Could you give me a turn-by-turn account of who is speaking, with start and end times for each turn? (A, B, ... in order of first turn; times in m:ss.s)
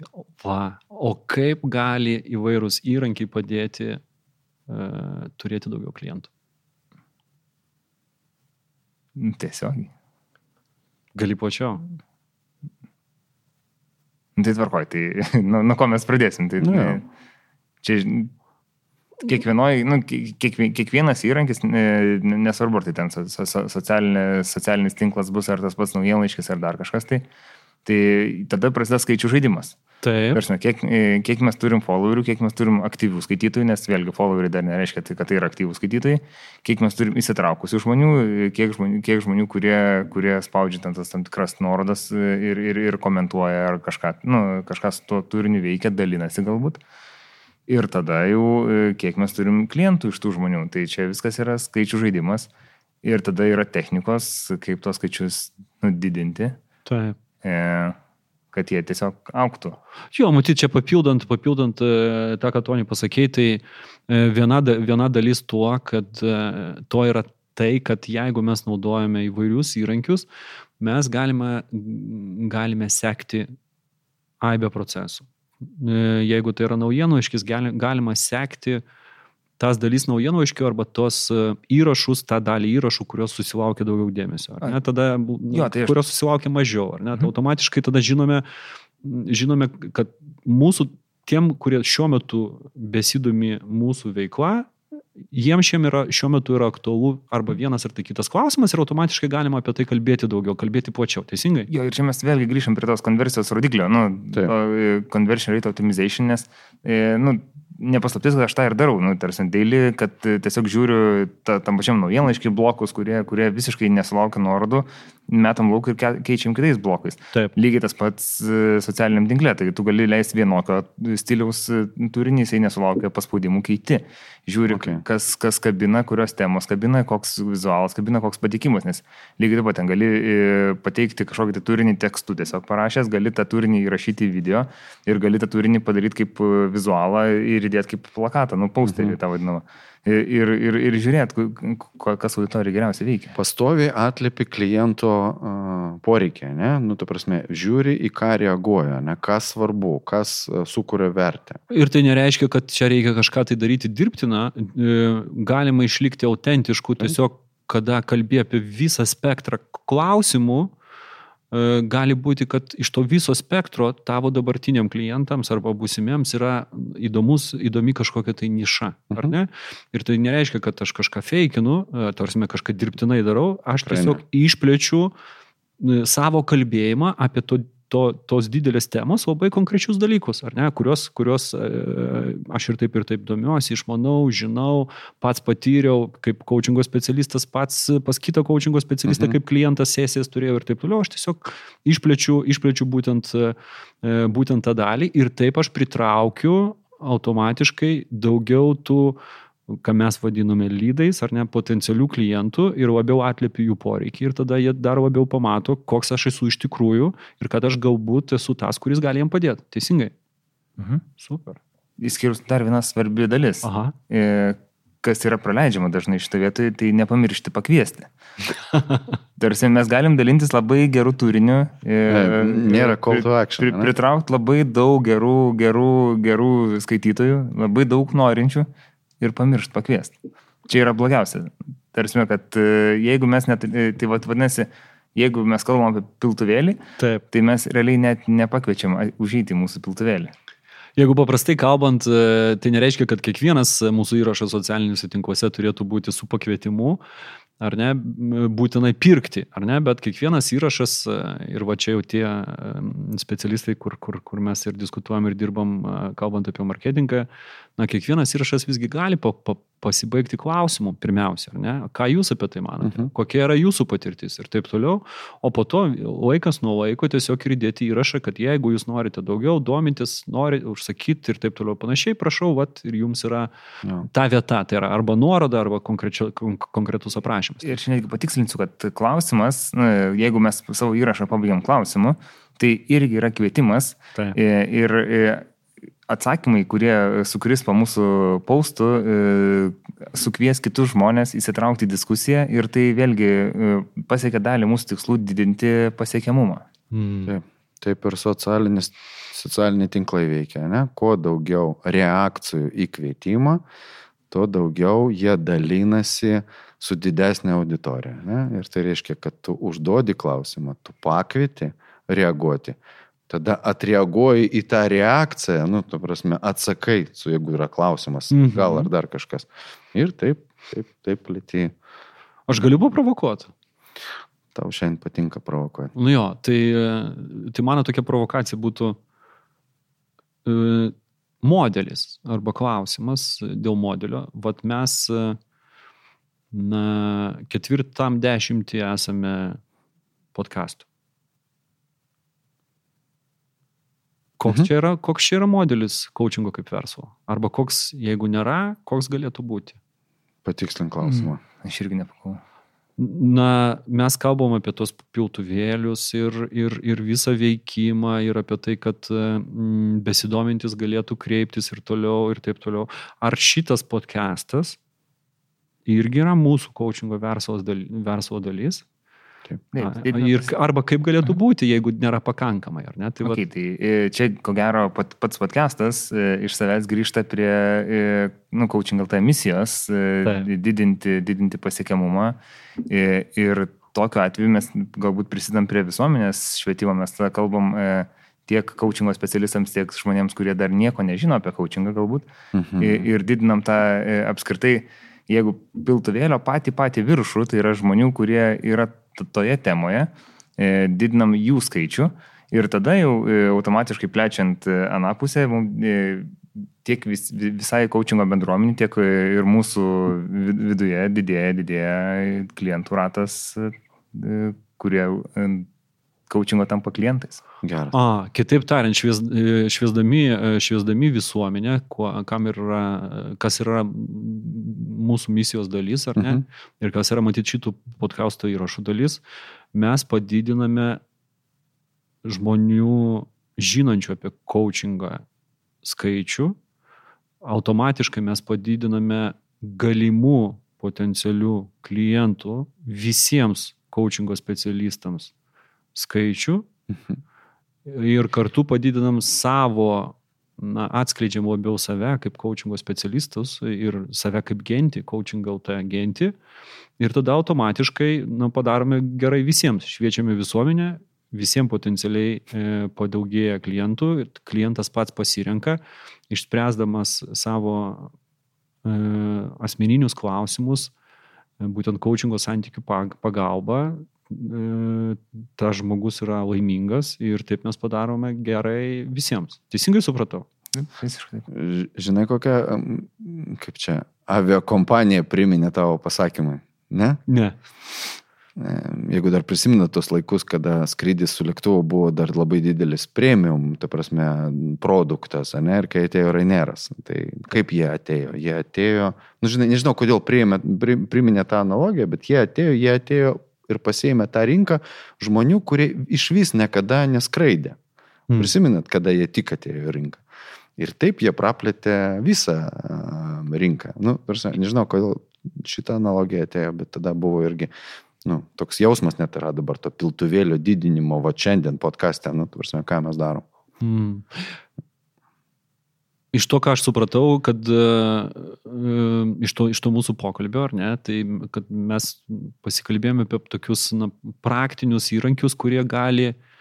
0:00.4-0:04.0 A
0:04.7-0:06.3 A
0:09.2-0:09.9 B
0:11.1-0:11.8 A
0:14.4-0:17.0 B
0:16.6-0:17.0 C
0:17.8-0:18.3 B
0:19.2-0:27.2 B
0:27.8-0:29.8 B
0:30.0-0:30.4 A
0:30.3-0:46.8 B
0:47.7-0:52.5 B
0:53.0-0:56.6 B
0:56.8-0:57.2 A
0:57.4-0:58.0 B
0:58.5-0:59.8 B
1:00.1-1:10.2 A
1:10.8-1:13.5 A
1:14.4-1:18.8 A
1:19.6-1:28.4 A
1:25.5-1:26.0 B
1:29.0-1:34.7 A
1:35.3-1:41.7 A
1:41.7-2:23.3 B
2:04.7-2:05.0 C
2:18.8-2:19.2 C
2:23.3-2:31.6 C
2:31.7-2:40.7 A
2:41.5-2:55.1 A
2:53.9-2:54.2 C
2:55.8-3:30.1 A
3:09.1-3:09.4 C
3:30.8-3:31.0 B
3:31.2-3:31.6 A
3:32.0-3:38.1 B
3:33.6-3:33.9 A
3:38.7-3:39.1 A
3:39.4-3:48.7 B
3:42.1-3:43.9 C
3:49.2-3:50.1 B
3:50.7-3:56.8 B
3:57.0-3:57.2 A
3:57.3-4:00.3 B
4:01.0-4:07.0 A
4:07.6-4:33.5 A
4:22.8-4:23.1 C
4:34.0-4:37.6 A
4:37.6-4:45.5 B
4:46.1-4:56.6 B
4:56.9-4:57.3 A
4:57.3-5:03.6 C
5:04.3-5:12.8 C
5:13.3-5:21.7 C
5:18.3-5:18.9 A
5:22.5-5:23.5 A
5:24.5-5:25.9 C
5:25.9-5:29.0 A
5:30.4-5:35.4 A
5:36.5-5:39.6 A
5:40.3-5:40.8 A
5:44.4-5:49.8 A
5:50.4-5:51.4 C
5:51.0-5:52.4 B
5:53.0-6:04.8 A
6:05.8-6:08.8 A
6:09.7-6:10.5 B
6:09.8-6:13.4 A
6:13.2-6:32.3 B
6:32.5-6:33.1 C
6:32.8-6:55.7 B
6:56.3-6:57.4 B
6:57.6-6:57.9 C
6:57.9-7:09.2 A
7:06.2-7:06.4 C
7:09.7-7:11.0 A
7:12.2-7:15.2 A
7:15.8-7:16.6 A
7:17.4-7:25.3 A
7:25.9-7:26.7 A
7:26.9-7:27.2 C
7:27.8-7:36.3 A
7:37.0-7:48.1 A
7:48.8-7:50.9 A
7:51.6-8:00.4 A
8:00.7-8:01.5 B
8:01.5-8:07.2 C
8:07.3-8:07.6 A
8:08.6-8:27.8 C
8:28.3-8:28.5 A
8:28.4-8:30.2 C
8:30.8-8:37.7 C
8:38.2-8:43.4 C
8:43.8-8:44.4 A
8:46.3-8:56.4 A